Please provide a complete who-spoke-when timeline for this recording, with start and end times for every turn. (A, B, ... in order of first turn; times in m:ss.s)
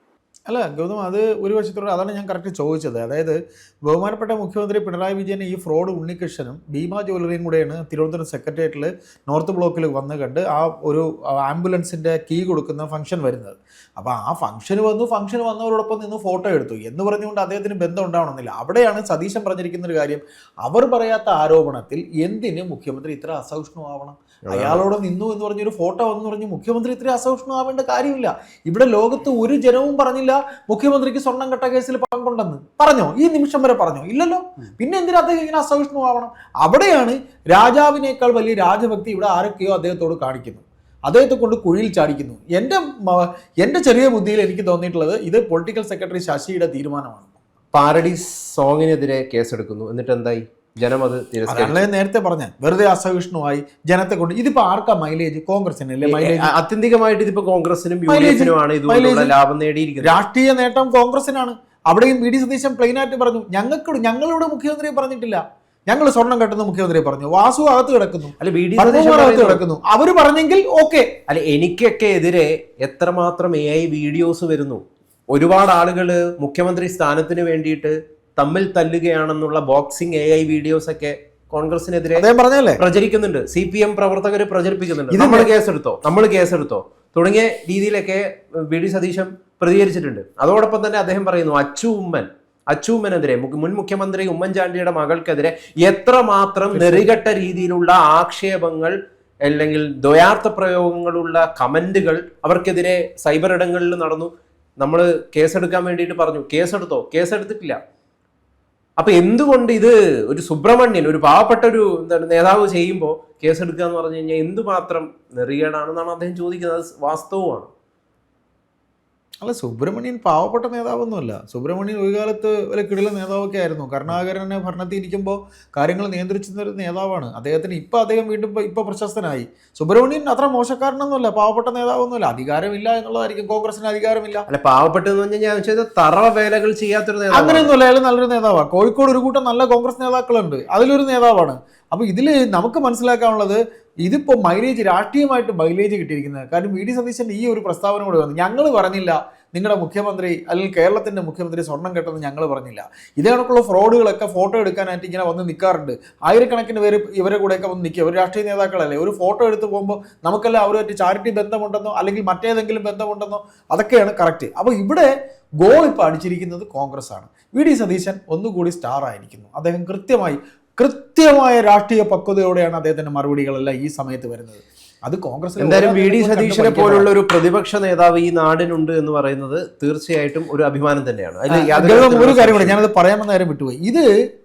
0:00.5-0:47.3 A
0:24.5-0:24.8 B
0:47.7-0:51.8 B
0:51.5-0:56.5 A
0:56.0-1:00.2 B
0:58.1-0:59.3 A
1:00.0-1:11.1 A
1:08.4-1:09.6 B
1:11.3-1:22.2 B
1:22.2-1:22.8 A
1:22.8-1:38.9 B
1:25.1-1:25.5 A
1:36.7-1:37.1 A
1:39.5-1:47.8 B
1:49.0-1:57.7 B
1:59.4-2:14.5 A
2:14.5-2:17.7 B
2:17.3-2:45.1 A
2:45.6-2:57.1 A
2:55.6-3:02.8 B
3:01.5-3:04.1 A